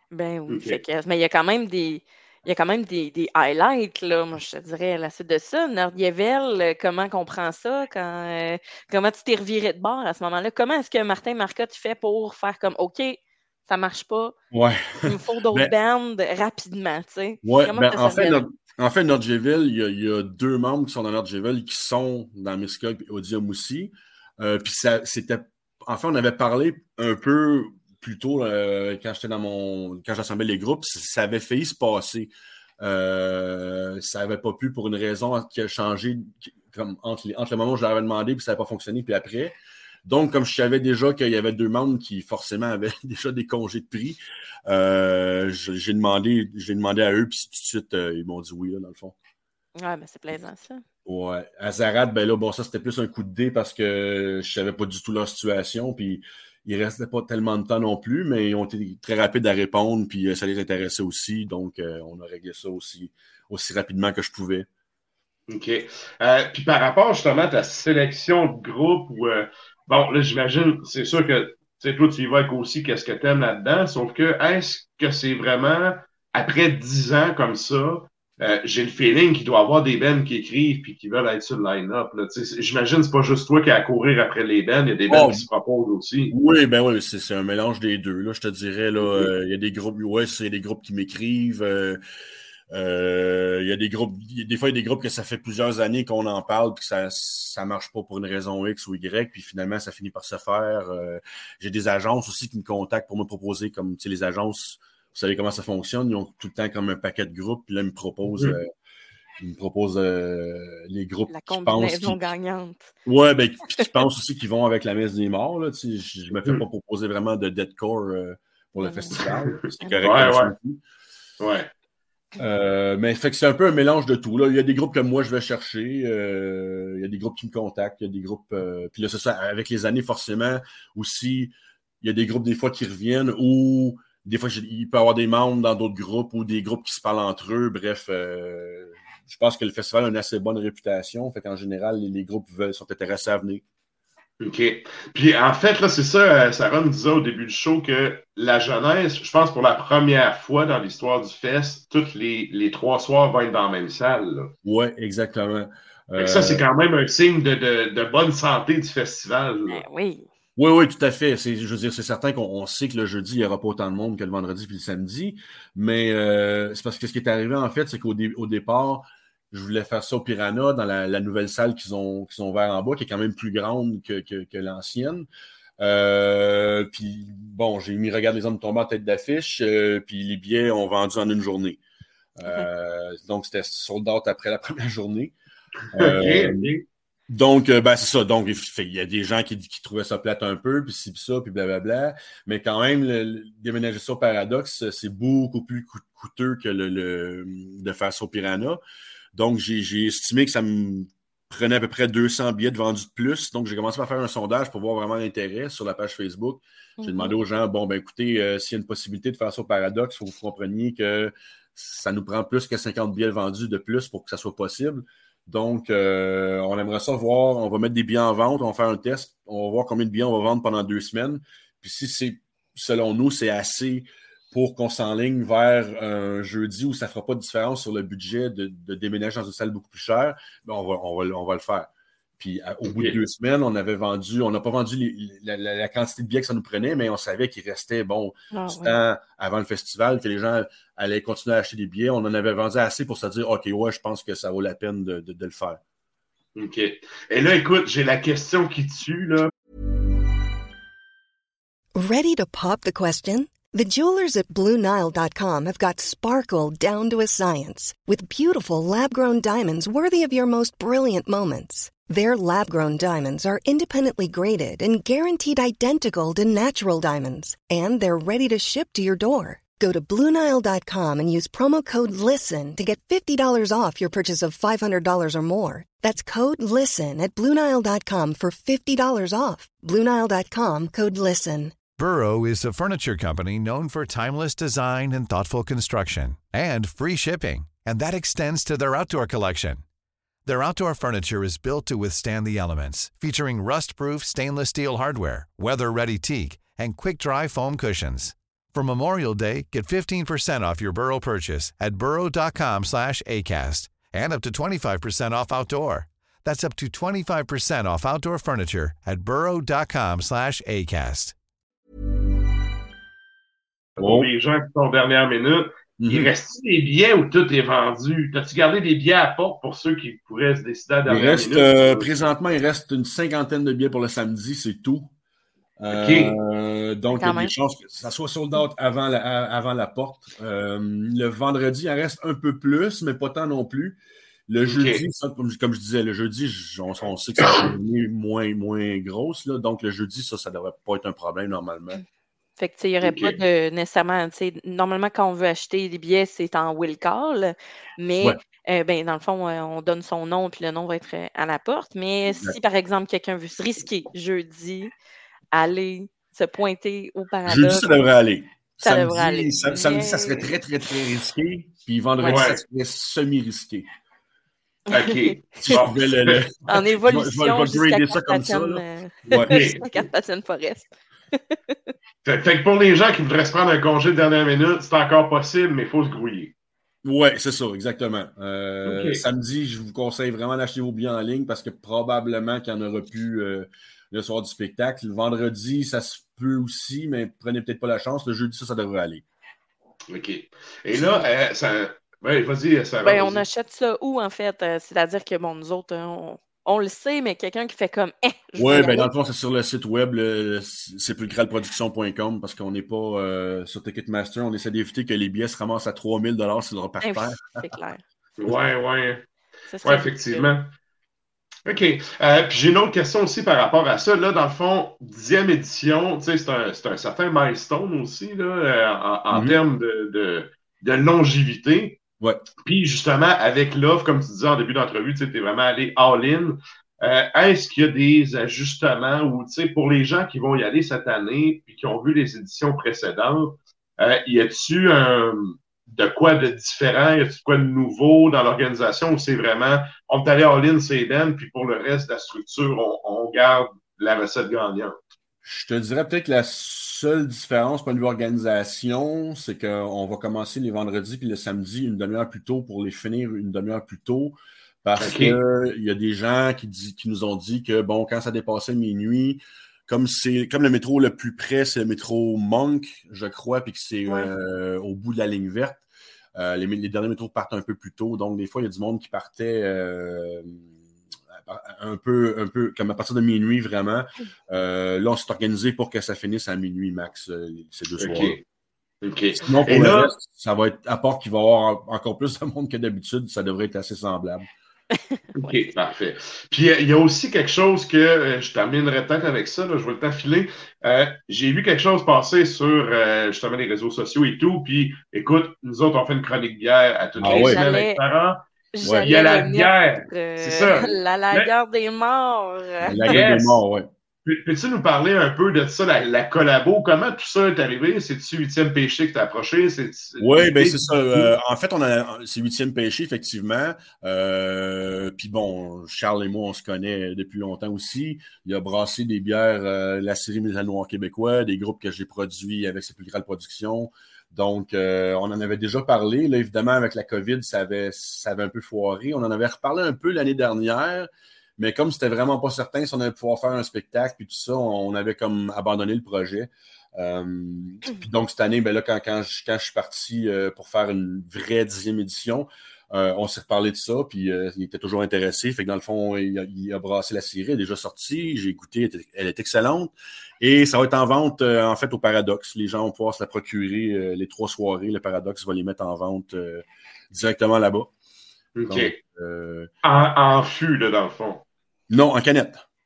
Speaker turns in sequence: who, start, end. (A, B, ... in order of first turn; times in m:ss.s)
0:00.1-0:14.3 A
0:00.5-0:00.8 B
0:14.5-0:15.7 C
0:15.0-0:18.4 A
0:17.4-0:49.2 C
0:49.8-0:50.8 A
0:51.0-1:04.7 C
1:05.5-1:26.3 B
1:25.1-1:25.4 C
1:26.3-1:32.0 C
1:29.0-1:29.3 B
1:32.7-1:48.7 C
1:49.4-1:52.3 C
1:51.3-1:52.9 A
1:53.0-2:00.8 C
1:58.8-1:59.2 A
1:59.2-2:00.5 B
2:01.4-2:01.7 B
2:02.4-2:23.6 C
2:24.4-2:34.5 B
2:34.6-2:36.6 C
2:36.2-2:39.8 B
2:39.7-2:40.3 A
2:40.6-2:55.3 C
2:55.8-3:01.8 C
3:02.4-3:05.3 C
3:05.9-3:06.8 B
3:05.9-3:06.7 C
3:07.3-3:18.8 C
3:19.3-4:05.8 C
3:27.0-3:27.4 A
3:52.8-3:53.2 B
3:58.5-3:59.0 A
4:06.6-4:09.5 B
4:12.0-4:41.8 D
4:42.0-4:49.8 E
4:50.4-5:11.3 E
5:14.0-5:22.1 B
5:14.0-5:14.3 C
5:16.0-5:16.3 C
5:21.1-5:25.1 C
5:25.8-5:42.0 C
5:25.9-5:26.3 B
5:27.1-5:27.5 A
5:34.7-5:35.0 B
5:42.6-5:54.9 A
5:43.0-5:43.4 B
5:52.3-5:52.6 C
5:55.5-5:57.9 A
5:57.4-6:03.9 C
5:58.8-6:00.5 A
6:02.3-6:02.6 B
6:04.9-6:05.8 A
6:04.9-6:06.4 B
6:05.6-6:09.6 C
6:06.7-6:11.7 A
6:09.3-6:10.1 B
6:12.2-6:16.5 B
6:17.0-6:29.2 C
6:18.8-6:19.2 B
6:30.1-6:33.4 B
6:30.9-6:31.2 A
6:33.0-6:39.1 A
6:38.6-6:47.7 C
6:47.0-6:48.0 A
6:48.4-6:49.2 B
6:49.7-6:50.5 A
6:49.8-6:50.7 B
6:51.6-7:02.0 B
6:59.3-6:59.6 C
7:02.6-7:25.0 B
7:25.4-7:45.8 C
7:35.0-7:35.4 B
7:46.4-7:50.7 C
7:51.3-7:58.4 C
7:58.0-7:58.4 B
7:59.0-8:00.1 B
7:59.3-8:04.5 C
8:05.0-8:05.7 A
8:05.4-8:18.5 B
8:17.2-8:17.6 C
8:17.2-8:18.0 A
8:18.7-8:23.0 A
8:18.8-8:19.1 C
8:19.0-8:21.5 B
8:22.8-8:23.9 C
8:23.0-8:23.6 B
8:24.2-8:31.3 B
8:30.2-9:17.9 C
9:18.6-9:19.0 B
9:18.6-9:19.7 C
9:19.8-9:21.4 B
9:21.9-9:22.6 C